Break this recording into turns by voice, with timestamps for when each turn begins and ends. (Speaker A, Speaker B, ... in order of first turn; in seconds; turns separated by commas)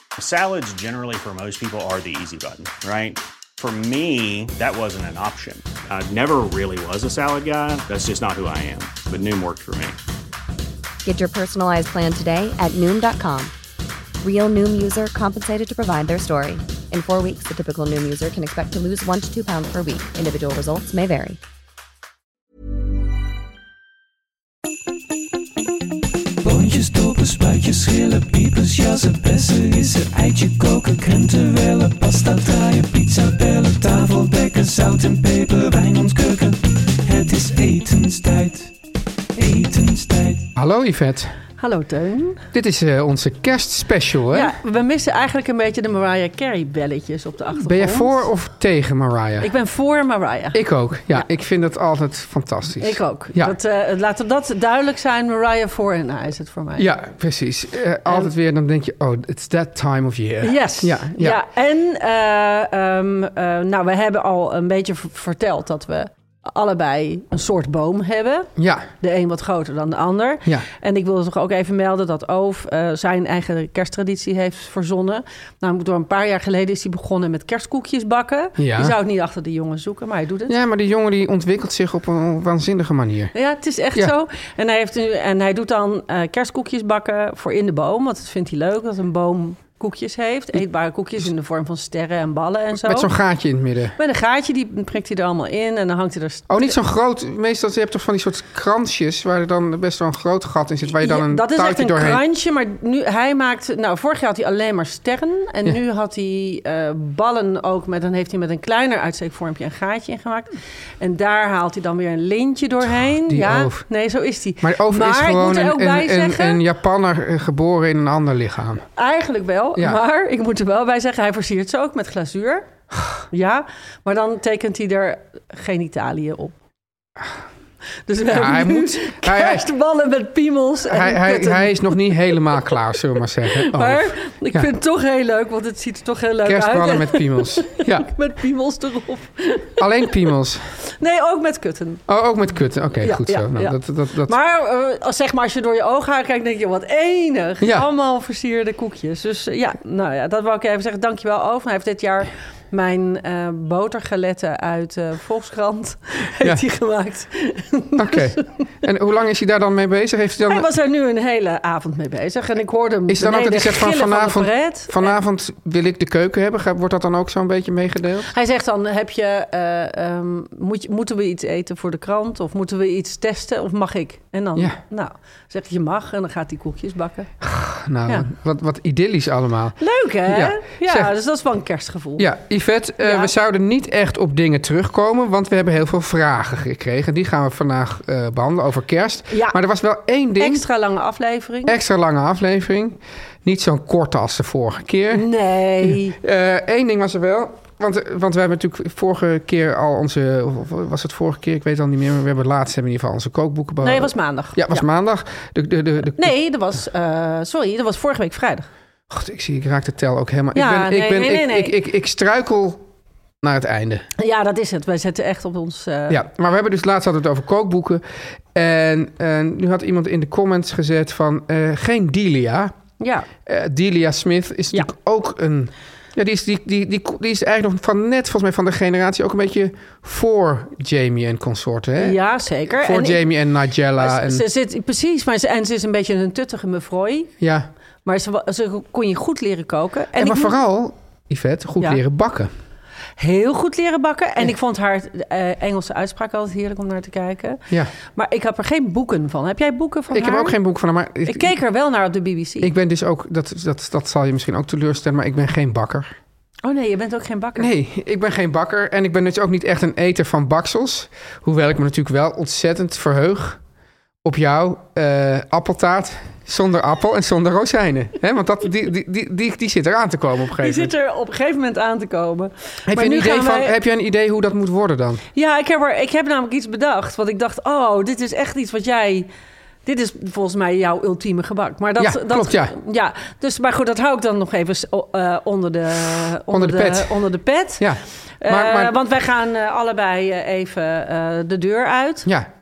Speaker A: 0.2-10.0, Speaker B: 11.0-13.5, Speaker B: 14.2-21.4, Speaker C: 26.4-38.7, Speaker C: 39.4-40.5, Speaker D: 40.5-41.3, Speaker E: 41.6-42.4, Speaker D: 42.5-44.5, Speaker E: 44.3-48.2, Speaker D: 47.6-49.5, Speaker E: 49.4-51.3, Speaker D: 50.5-53.5, Speaker E: 52.8-56.9, Speaker D: 56.8-61.4, Speaker E: 60.4-80.5, Speaker D: 68.6-68.9, Speaker D: 78.6-79.0, Speaker D: 80.5-83.3, Speaker E: 83.3-93.1, Speaker D: 92.8-94.0, Speaker E: 94.0-96.8, Speaker D: 96.5-102.2, Speaker E: 101.0-116.6, Speaker D: 113.0-113.8, Speaker D: 114.6-118.8, Speaker E: 119.0-122.7, Speaker E: 123.3-126.5, Speaker E: 128.1-132.6, Speaker D: 128.2-129.7, Speaker D: 130.9-134.7, Speaker E: 133.5-140.1, Speaker D: 136.4-138.1, Speaker D: 139.8-140.6, Speaker E: 141.0-142.0, Speaker D: 142.1-144.3, Speaker E: 143.0-158.5, Speaker D: 147.6-147.9, Speaker D: 158.0-160.7, Speaker E: 160.4-165.2, Speaker D: 163.1-168.3, Speaker E: 168.3-177.3, Speaker D: 177.4-181.1, Speaker E: 179.8-182.2, Speaker D: 182.2-190.6, Speaker E: 183.0-183.3, Speaker E: 189.3-189.6, Speaker E: 190.4-191.8, Speaker D: 191.7-206.3, Speaker E: 195.1-196.2, Speaker E: 203.8-204.8, Speaker E: 206.1-208.7, Speaker D: 209.1-212.8, Speaker E: 210.5-211.7, Speaker D: 213.4-214.1, Speaker E: 214.2-216.2, Speaker D: 216.1-222.8, Speaker E: 223.0-223.3, Speaker D: 223.4-232.2, Speaker E: 232.0-233.3, Speaker D: 232.7-234.4, Speaker E: 234.0-237.3, Speaker D: 237.4-237.7, Speaker E: 238.0-240.6, Speaker D: 240.1-242.5, Speaker E: 243.2-250.6, Speaker D: 250.1-251.6, Speaker E: 251.2-252.7, Speaker D: 252.6-256.1, Speaker E: 256.6-257.7, Speaker D: 257.6-263.6, Speaker D: 264.2-270.9, Speaker E: 270.6-273.8, Speaker D: 272.9-275.2, Speaker E: 275.4-279.3, Speaker E: 279.9-292.3, Speaker D: 282.0-282.7, Speaker D: 286.5-287.2, Speaker D: 287.8-288.9